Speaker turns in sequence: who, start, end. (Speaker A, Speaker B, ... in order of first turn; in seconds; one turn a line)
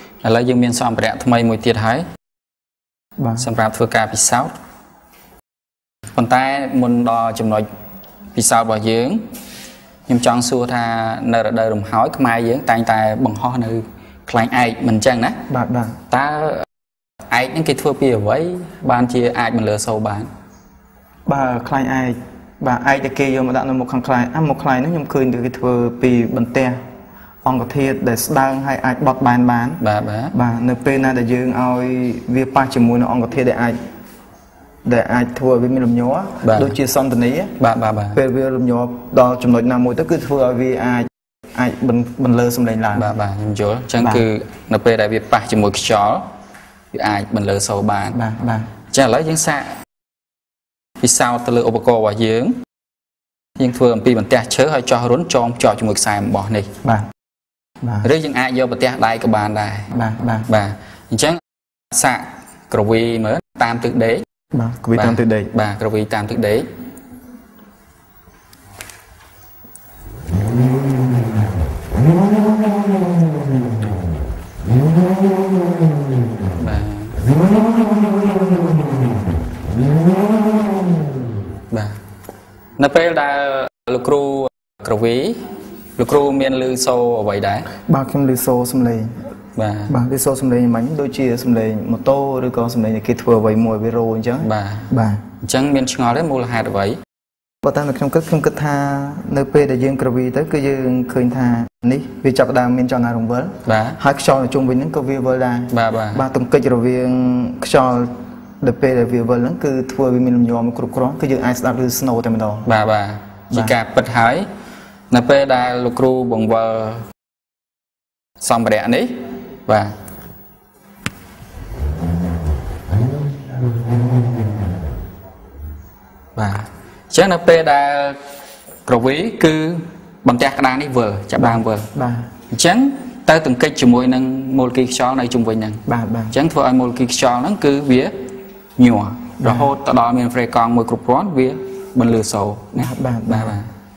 Speaker A: 0.2-2.0
Speaker B: 3.2-3.5
Speaker A: 3.4-4.5
Speaker A: 6.1-7.6
Speaker A: 8.3-9.2
Speaker A: 10.1-15.4
Speaker B: 15.5-15.9
Speaker A: 16.1-16.6
Speaker A: 17.3-20.3
Speaker B: 21.3-26.8
Speaker B: 27.4-29.8
Speaker A: 29.8-30.3
Speaker B: 30.3-33.8
Speaker B: 34.8-37.5
Speaker A: 36.4-36.7
Speaker A: 37.6-38.2
Speaker B: 38.1-43.1
Speaker A: 42.9-46.2
Speaker B: 44.0-44.2
Speaker A: 46.9-48.2
Speaker B: 48.1-48.7
Speaker A: 48.9-49.7
Speaker A: 51.0-52.6
Speaker A: 53.6-56.7
Speaker B: 57.8-58.1
Speaker A: 58.0-59.9
Speaker B: 59.9-60.5
Speaker A: 60.5-61.4
Speaker A: 61.9-64.2
Speaker B: 64.5-65.5
Speaker A: 64.9-66.7
Speaker A: 76.5-77.2
Speaker A: 81.7-82.0
Speaker A: 82.8-85.4
Speaker A: 86.0-87.7
Speaker B: 87.8-89.1
Speaker A: 89.5-89.9
Speaker B: 89.9-95.2
Speaker A: 94.4-94.9
Speaker A: 95.4-97.0
Speaker B: 97.6-108.1
Speaker A: 103.7-104.0
Speaker A: 105.7-106.2
Speaker B: 108.6-112.7
Speaker A: 112.7-114.5
Speaker A: 115.1-117.0
Speaker A: 118.4-119.1
Speaker A: 119.7-119.9
Speaker A: 126.3-128.2
Speaker A: 128.8-131.9
Speaker B: 131.9-132.3
Speaker A: 132.5-138.1
Speaker B: 135.9-136.3
Speaker A: 138.8-143.7
Speaker B: 139.4-139.7
Speaker B: 142.8-143.6